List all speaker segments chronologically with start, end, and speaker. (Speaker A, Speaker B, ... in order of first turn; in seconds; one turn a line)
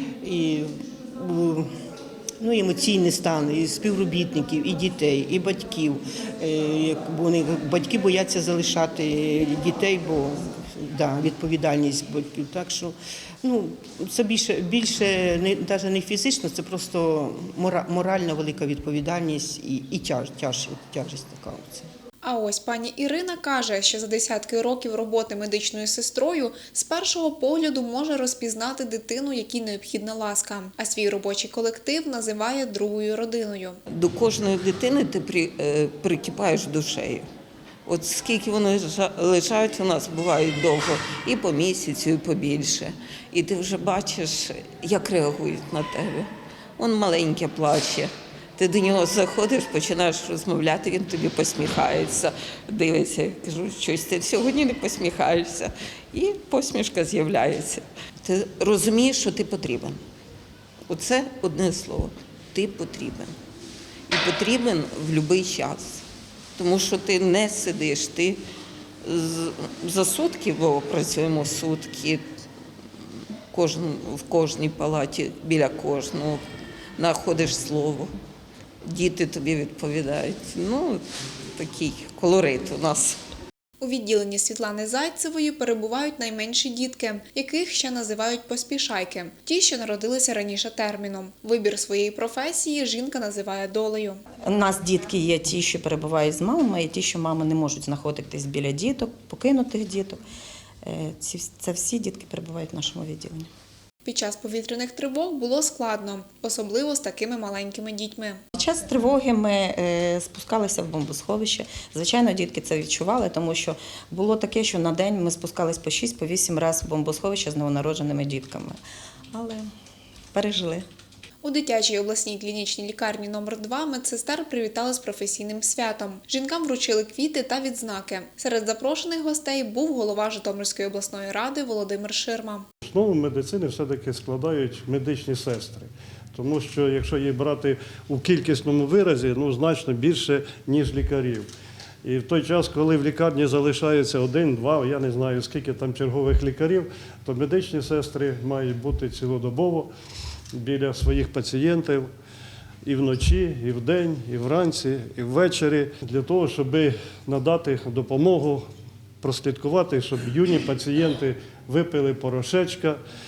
Speaker A: 0.2-1.7
Speaker A: 2.4-21.9
Speaker B: 22.2-33.8
Speaker C: 33.9-37.3
Speaker C: 37.9-60.0
Speaker C: 60.9-63.3
Speaker C: 64.1-66.0
Speaker C: 66.6-68.4
Speaker C: 69.0-72.2
Speaker C: 73.5-76.4
Speaker C: 77.0-78.1
Speaker C: 78.8-81.0
Speaker C: 81.5-83.2
Speaker B: 83.8-94.2
Speaker D: 94.4-100.2
Speaker D: 100.8-103.5
Speaker B: 104.0-108.4
Speaker D: 108.6-118.8
Speaker D: 119.3-119.7
Speaker D: 120.3-120.8
Speaker B: 121.4-132.7
Speaker E: 132.8-141.5
Speaker E: 142.0-149.9
Speaker E: 150.5-152.1
Speaker E: 152.8-158.6
Speaker E: 159.2-163.0